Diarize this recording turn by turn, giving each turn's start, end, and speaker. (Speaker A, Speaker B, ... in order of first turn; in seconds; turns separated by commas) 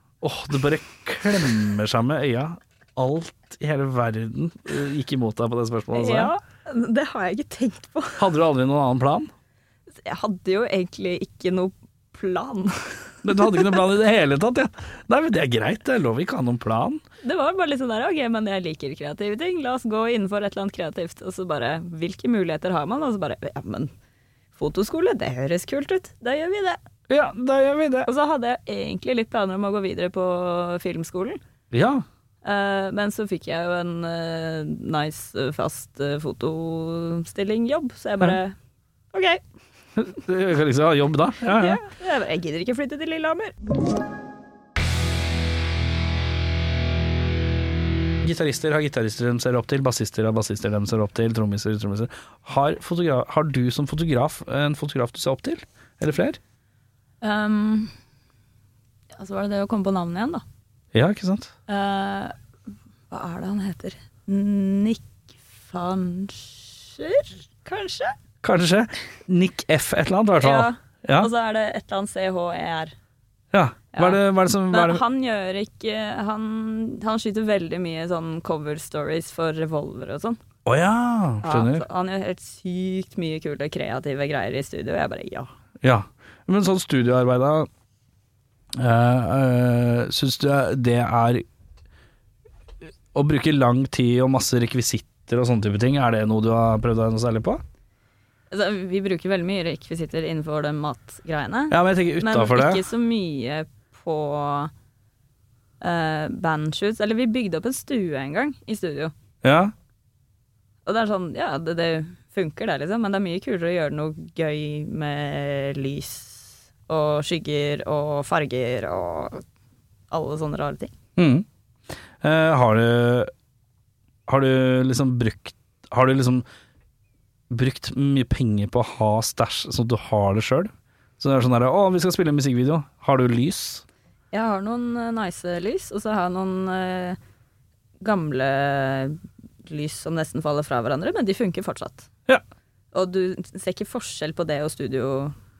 Speaker A: 0.2-6.3, Speaker B: 5.9-8.2, Speaker A: 8.2-9.3, Speaker B: 10.0-13.7, Speaker A: 13.2-17.0, Speaker B: 17.2-23.9, Speaker B: 24.6-26.8, Speaker A: 27.1-28.1, Speaker B: 28.0-31.4, Speaker A: 31.7-32.0, Speaker B: 32.4-38.5, Speaker B: 39.1-39.4, Speaker A: 40.0-41.8, Speaker B: 41.5-43.5, Speaker A: 48.2-56.4, Speaker B: 57.2-57.9, Speaker B: 59.1-60.4, Speaker A: 60.9-61.5, Speaker B: 61.7-62.3, Speaker B: 63.1-68.1, Speaker A: 68.4-71.3, Speaker B: 70.4-72.9, Speaker A: 73.5-75.0, Speaker B: 73.9-80.4, Speaker A: 80.6-81.8, Speaker B: 81.4-85.5, Speaker A: 85.8-87.7, Speaker A: 88.7-91.4, Speaker A: 93.1-97.6, Speaker B: 98.5-104.7, Speaker A: 101.7-102.8, Speaker B: 105.8-109.1, Speaker A: 109.4-109.7, Speaker B: 110.8-119.4, Speaker B: 120.1-120.9, Speaker A: 121.2-121.5, Speaker A: 122.2-123.3, Speaker A: 124.3-126.4, Speaker A: 127.5-133.8, Speaker B: 134.3-137.2, Speaker B: 138.0-142.1, Speaker B: 142.9-145.3